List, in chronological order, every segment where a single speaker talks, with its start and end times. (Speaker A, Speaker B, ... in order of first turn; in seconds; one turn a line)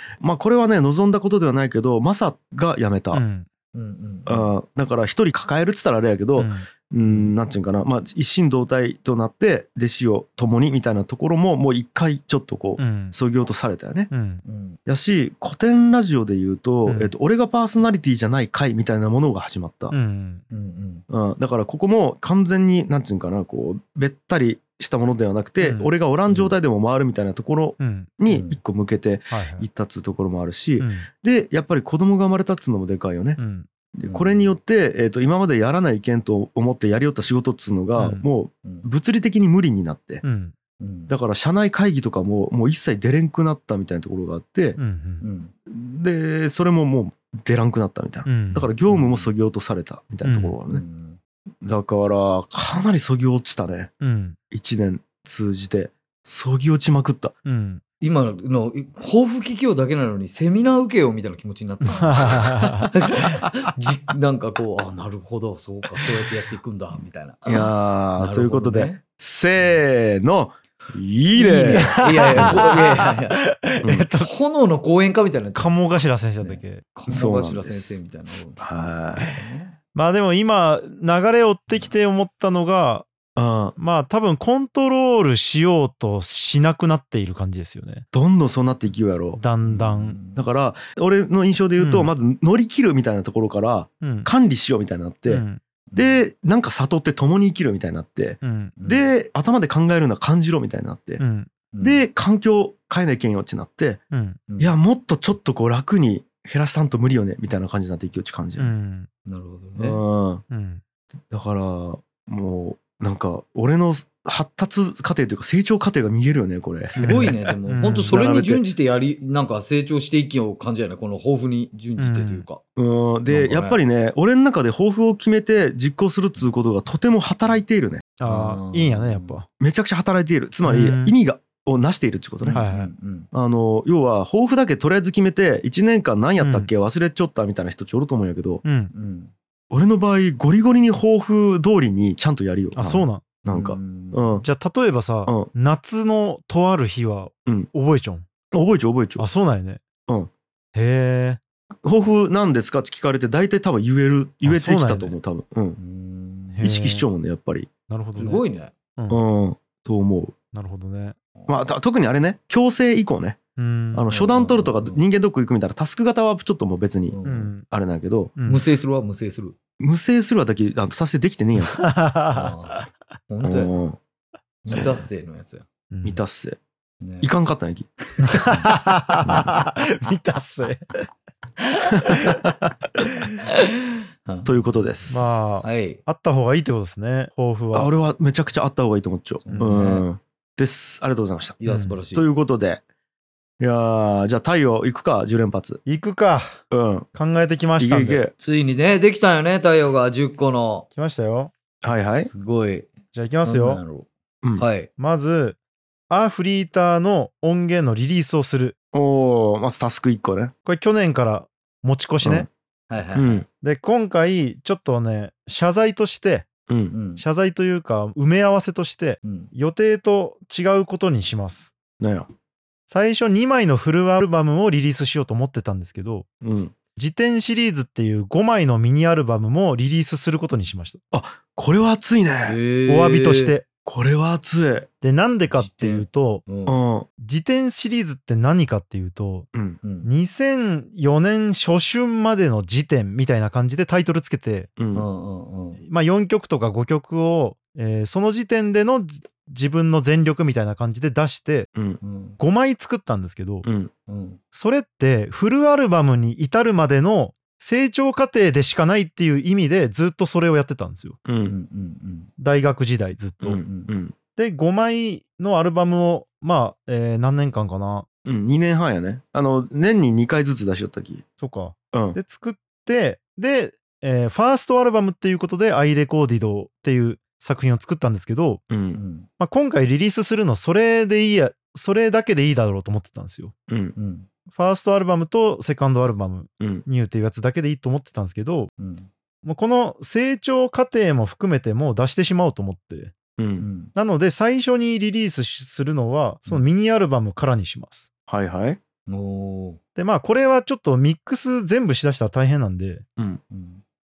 Speaker A: 0.2-3.2
Speaker B: 3.1-3.5
Speaker C: 3.7-4.5
Speaker A: 4.3-14.1
Speaker B: 6.4-6.7
Speaker C: 7.0-7.3
Speaker B: 12.8-13.2
Speaker B: 14.1-14.4
Speaker C: 14.4-14.8
Speaker A: 14.9-19.9
Speaker B: 16.9-17.1
Speaker B: 19.9-20.4
Speaker C: 20.5-21.0
Speaker A: 21.1-33.4
Speaker B: 25.6-25.9
Speaker C: 26.3-26.6
Speaker B: 27.8-28.1
Speaker C: 28.3-28.6
Speaker B: 29.3-29.7
Speaker B: 30.8-31.1
Speaker B: 33.4-33.7
Speaker A: 33.9-40.2
Speaker C: 34.1-34.5
Speaker B: 38.0-38.2
Speaker B: 40.2-40.5
Speaker C: 40.8-41.1
Speaker A: 41.1-44.8
Speaker B: 44.8-45.2
Speaker C: 45.2-45.5
Speaker A: 45.7-50.8
Speaker B: 48.3-48.7
Speaker C: 48.9-49.3
Speaker B: 50.2-50.6
Speaker C: 50.7-51.2
Speaker A: 51.6-53.9
Speaker B: 54.0-54.4
Speaker A: 54.5-57.3
Speaker B: 57.5-57.8
Speaker C: 58.0-69.0
Speaker B: 61.9-62.9
Speaker A: 67.5-72.6
Speaker C: 71.3-73.4
Speaker B: 71.7-74.3
Speaker A: 73.8-74.1
Speaker C: 74.2-75.8
Speaker B: 75.5-76.9
Speaker C: 76.4-79.8
Speaker A: 77.1-78.0
Speaker A: 78.6-79.3
Speaker B: 80.0-83.1
Speaker A: 83.4-83.8
Speaker B: 83.8-88.0
Speaker A: 88.1-89.4
Speaker B: 89.4-90.2
Speaker C: 89.6-90.4
Speaker A: 90.3-95.4
Speaker B: 91.8-92.1
Speaker B: 94.0-94.3
Speaker B: 95.3-95.6
Speaker C: 95.9-96.2
Speaker A: 96.0-101.2
Speaker B: 98.4-98.8
Speaker C: 98.8-99.1
Speaker B: 101.2-101.5
Speaker C: 101.7-102.0
Speaker A: 101.8-104.0
Speaker B: 104.1-104.4
Speaker C: 104.5-104.8
Speaker A: 104.6-108.7
Speaker B: 108.6-109.1
Speaker C: 109.3-110.0
Speaker A: 109.8-110.4
Speaker B: 110.5-110.8
Speaker A: 111.3-118.6
Speaker C: 116.9-122.6
Speaker B: 117.0-118.2
Speaker B: 122.0-122.5
Speaker A: 122.8-128.1
Speaker C: 123.3-123.8
Speaker B: 128.2-129.5
Speaker C: 128.2-129.4
Speaker A: 129.6-132.6
Speaker B: 130.7-131.2
Speaker C: 132.4-133.3
Speaker B: 132.5-132.9
Speaker A: 133.3-138.6
Speaker B: 136.4-136.7
Speaker B: 138.6-138.9
Speaker C: 138.9-139.3
Speaker A: 139.7-144.5
Speaker B: 142.8-143.3
Speaker C: 143.5-144.4
Speaker B: 144.4-148.2
Speaker A: 148.5-149.2
Speaker B: 149.2-149.8
Speaker B: 150.8-151.4
Speaker A: 151.8-155.8
Speaker B: 154.4-155.2
Speaker C: 155.8-156.7
Speaker B: 156.5-157.1
Speaker A: 156.6-157.7
Speaker B: 157.9-158.4
Speaker C: 158.2-158.7
Speaker B: 159.0-159.2
Speaker A: 159.1-160.3
Speaker B: 160.5-161.2
Speaker A: 161.5-163.4
Speaker B: 163.6-164.1
Speaker A: 163.9-168.3
Speaker C: 164.1-165.0
Speaker C: 167.1-167.5
Speaker B: 167.2-167.7
Speaker B: 168.4-168.7
Speaker C: 168.5-169.6
Speaker A: 169.8-171.8
Speaker B: 171.6-172.8
Speaker C: 172.3-173.7
Speaker A: 173.4-174.0
Speaker C: 174.6-175.7
Speaker B: 175.9-176.2
Speaker A: 176.1-176.6
Speaker C: 177.0-177.3
Speaker A: 177.2-177.9
Speaker C: 178.2-178.7
Speaker B: 178.2-181.1
Speaker A: 179.2-179.5
Speaker C: 181.6-182.3
Speaker A: 182.0-182.7
Speaker C: 183.4-186.0
Speaker A: 184.4-185.6
Speaker B: 185.1-187.9
Speaker A: 187.7-191.6
Speaker C: 189.4-190.1
Speaker B: 189.6-189.8
Speaker C: 191.6-192.3
Speaker B: 191.7-192.0
Speaker A: 192.1-192.8
Speaker A: 193.6-195.8
Speaker B: 195.8-196.6
Speaker A: 196.7-197.1
Speaker B: 197.1-198.3
Speaker A: 197.8-198.3
Speaker C: 198.4-200.9
Speaker B: 200.9-201.5
Speaker A: 201.8-202.3
Speaker C: 202.2-202.9
Speaker B: 203.1-203.8
Speaker C: 203.4-204.9
Speaker B: 205.0-205.6
Speaker B: 206.1-208.8
Speaker A: 208.9-210.5
Speaker B: 210.7-212.5
Speaker A: 212.2-212.5
Speaker C: 212.9-213.4
Speaker A: 213.2-213.4
Speaker B: 213.6-216.5
Speaker A: 216.7-216.9
Speaker C: 216.9-217.2
Speaker B: 217.2-221.7
Speaker C: 219.2-219.5
Speaker A: 222.0-222.3
Speaker B: 222.9-226.3
Speaker A: 226.4-226.7
Speaker B: 227.0-231.0
Speaker A: 231.1-232.6
Speaker C: 232.5-233.6
Speaker B: 232.9-233.7
Speaker A: 233.8-234.9
Speaker B: 235.0-236.5
Speaker C: 235.5-236.8
Speaker A: 236.7-237.1
Speaker B: 237.2-239.5
Speaker A: 239.5-239.8
Speaker C: 239.8-240.1
Speaker B: 240.0-244.7
Speaker A: 244.8-245.1
Speaker C: 244.9-245.8
Speaker B: 245.8-251.7
Speaker A: 251.8-252.0
Speaker C: 252.0-252.4
Speaker B: 252.4-253.7
Speaker A: 253.6-253.9
Speaker C: 254.1-254.4
Speaker B: 254.5-261.2
Speaker A: 261.3-261.6
Speaker C: 261.5-262.3
Speaker B: 262.4-263.6
Speaker A: 263.4-264.1
Speaker C: 263.6-263.9
Speaker B: 264.4-268.1
Speaker A: 268.2-271.2
Speaker B: 271.4-278.6
Speaker A: 271.9-272.2
Speaker A: 278.7-279.0
Speaker C: 278.9-279.3
Speaker B: 279.4-283.5
Speaker A: 283.7-284.0
Speaker C: 284.0-284.3
Speaker B: 284.5-288.7
Speaker A: 286.6-286.9
Speaker C: 288.8-289.1
Speaker B: 289.4-293.1
Speaker A: 293.4-293.7
Speaker C: 293.6-293.9
Speaker B: 293.9-298.1
Speaker A: 298.3-298.8
Speaker C: 299.1-299.8
Speaker B: 300.0-303.1
Speaker C: 303.5-303.8